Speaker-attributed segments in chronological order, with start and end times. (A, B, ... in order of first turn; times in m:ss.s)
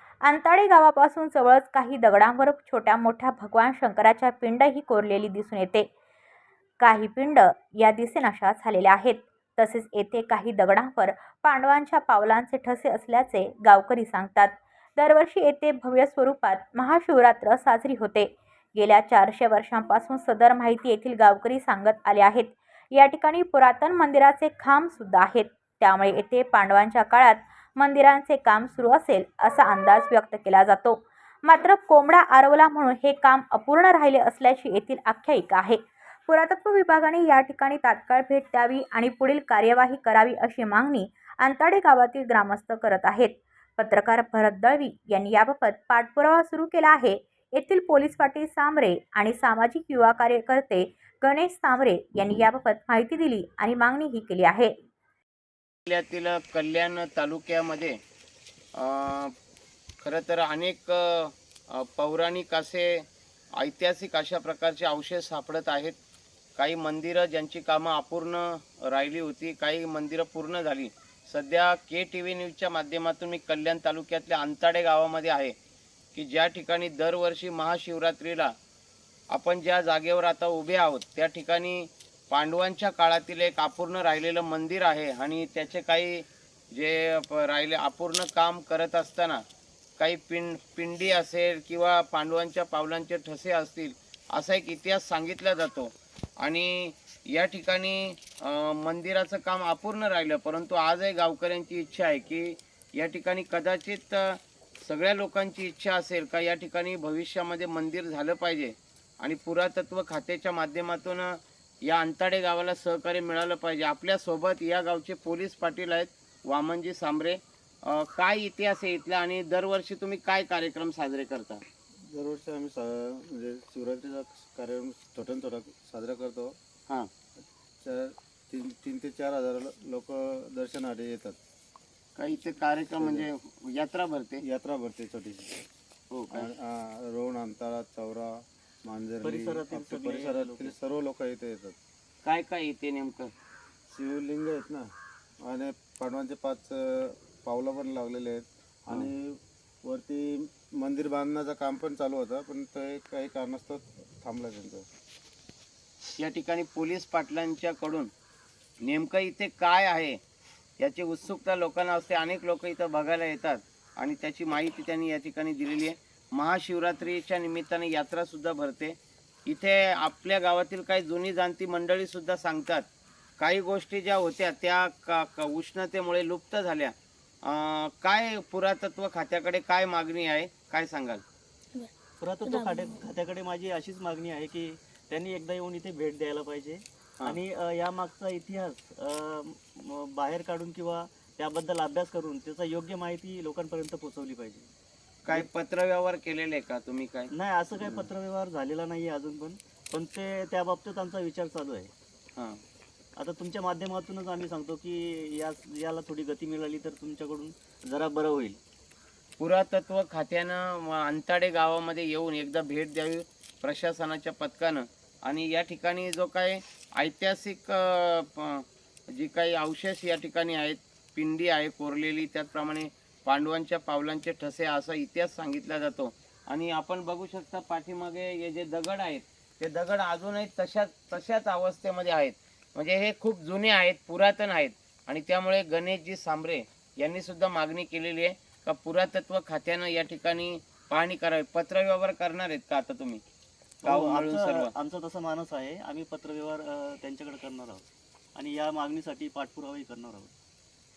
0:00.2-0:05.9 A
0:06.8-0:54.7 A
0:55.9-0:58.0 B
0:58.7-0:59.3 B
1:00.0-1:03.0 B
1:03.6-1:06.0 B
1:06.6-1:15.5 B
1:16.1-1:18.5 B
1:19.3-1:29.4 B
1:30.0-2:01.6 B
2:02.1-2:06.6 C
2:07.8-2:11.4 C
2:12.2-2:14.4 B
2:13.0-2:13.3 C
2:14.4-2:15.6 C
2:16.1-2:16.5 B
2:16.3-2:21.8 C
2:19.2-2:20.7 D
2:22.2-2:23.3 B
2:23.9-2:24.9 C
2:25.4-2:34.8 C
2:36.2-2:38.1 B
2:38.8-2:40.2 B
2:40.8-2:52.8 B
2:53.4-2:56.9 B
2:57.4-3:01.2 B
3:02.2-3:14.7 D
3:15.2-3:18.1 B
3:17.3-3:21.9 D
3:22.4-3:22.6 B
3:23.2-3:28.6 D
3:29.4-4:03.2 B
4:03.8-4:10.3 D
4:03.8-4:04.7 B